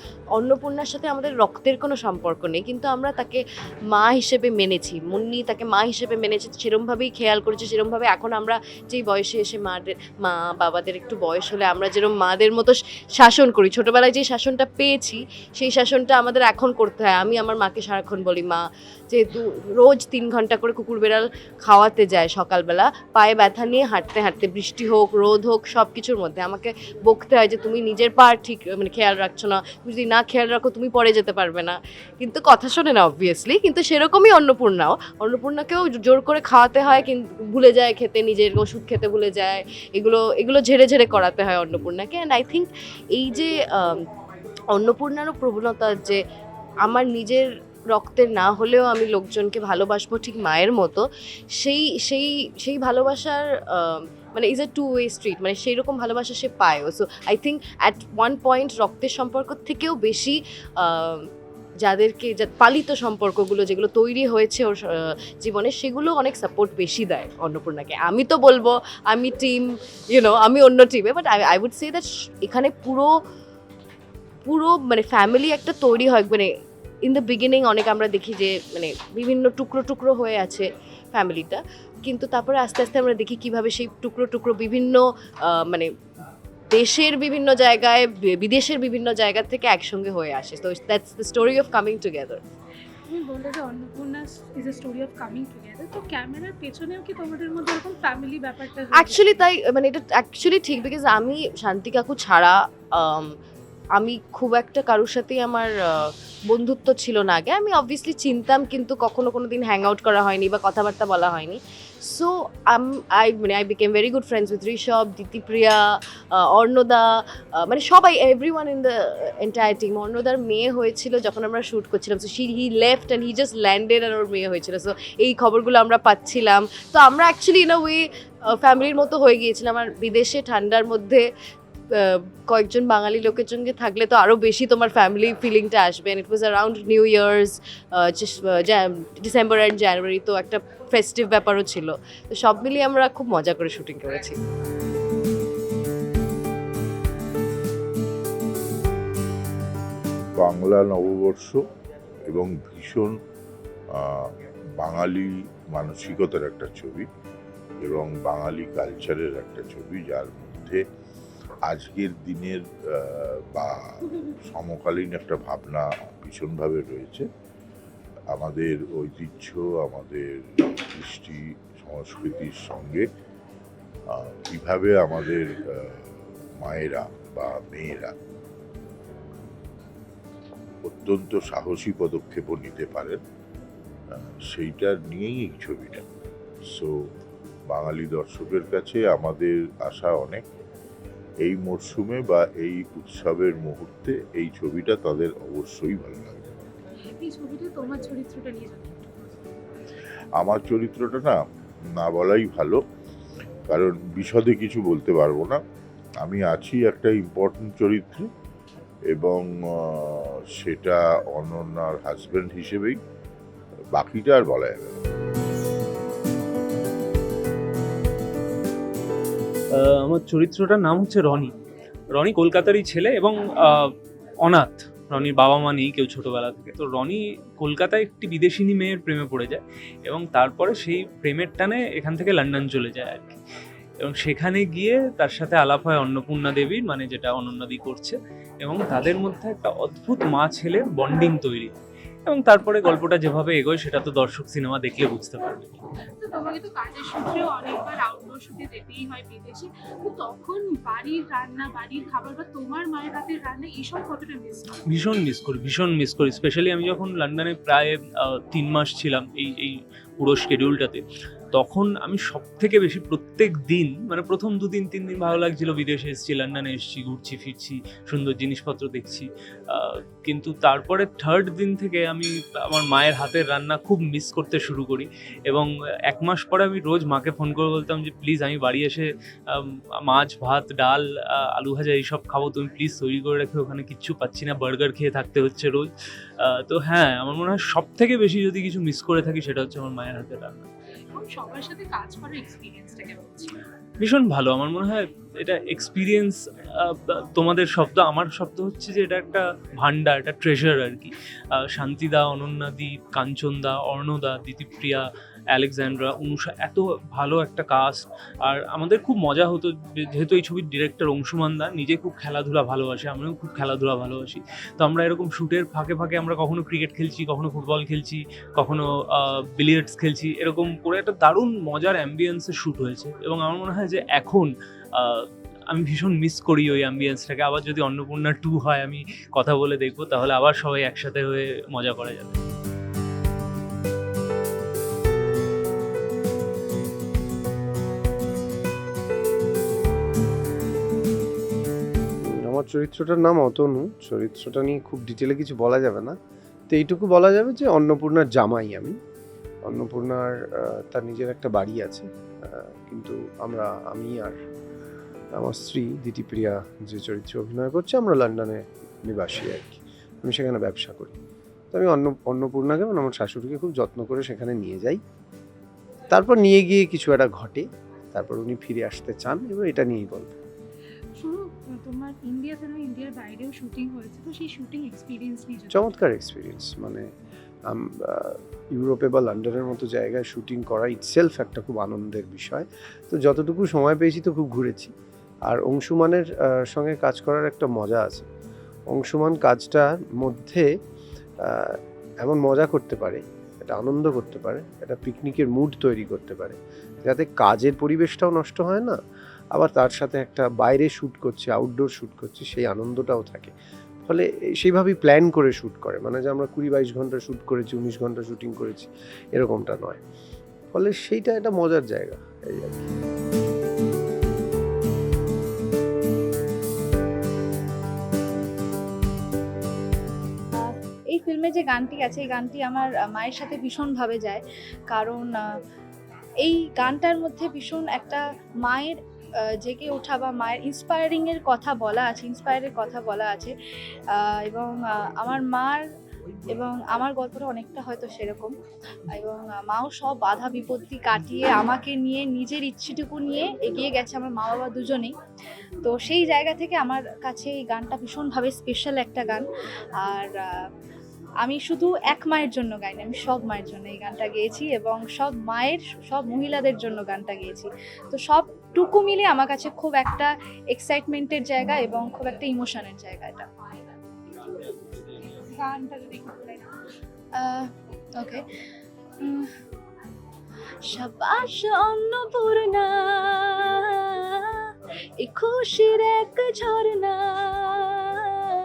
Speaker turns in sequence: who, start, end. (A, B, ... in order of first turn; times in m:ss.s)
0:00.4-0:44.0 A
0:44.7-0:46.2 A
0:46.8-0:51.0 A
0:51.6-1:01.2 A
1:01.8-1:13.1 A
1:14.4-1:16.5 A
1:17.0-1:25.9 A
1:26.7-1:32.4 A
1:33.1-1:39.3 B
1:38.9-1:43.3 A
1:44.0-1:57.0 A
1:57.6-2:11.2 A
2:11.9-2:24.4 A
2:30.4-2:31.6 C
2:32.3-2:33.1 C
2:33.9-2:34.3 C
2:34.8-2:37.0 C
2:37.8-2:40.8 C
2:41.7-2:43.7 C
2:44.5-2:47.3 C
2:48.3-2:53.0 C
2:54.1-2:55.6 C
2:56.6-2:58.1 C
3:00.8-3:03.2 C
3:04.5-3:06.0 C
3:07.7-3:10.4 C
3:11.4-3:16.5 C
3:17.2-3:19.5 B
3:20.4-3:21.4 C
3:22.0-3:22.8 C
3:23.7-3:25.6 C
3:26.2-3:28.3 C
3:29.1-3:33.0 C
3:33.9-3:35.0 C
3:39.8-3:41.5 D
3:42.1-3:53.4 D
3:54.0-4:01.7 D
4:02.3-4:05.7 D
4:06.2-4:14.8 B
4:14.9-4:21.0 D
4:21.5-4:45.9 D
4:46.4-4:50.6 D
4:51.1-4:53.5 B
4:54.0-5:32.4 D
5:42.5-5:46.1 E
5:46.7-5:48.9 E
5:49.7-5:50.3 E
5:50.9-5:52.0 E
5:52.8-5:54.4 E
5:55.4-6:01.2 E
6:01.7-6:05.0 E
6:06.1-6:10.4 E
6:11.2-6:16.0 B
6:15.7-6:17.0 E
6:18.1-6:24.9 E
6:25.5-6:28.2 E
6:28.9-6:30.6 E
6:31.4-6:38.9 E
6:39.6-6:43.5 E
6:44.1-6:50.0 E
6:50.7-6:52.9 E
7:00.6-7:05.4 F
7:06.4-7:09.0 F
7:09.6-7:13.5 F
7:14.1-7:15.8 F
7:16.5-7:18.5 F
7:19.1-7:25.1 F
7:25.8-7:29.4 F
7:30.0-7:30.3 F
7:31.4-7:43.4 F
7:45.5-7:46.7 B
7:47.4-7:47.7 F
7:48.2-7:48.4 F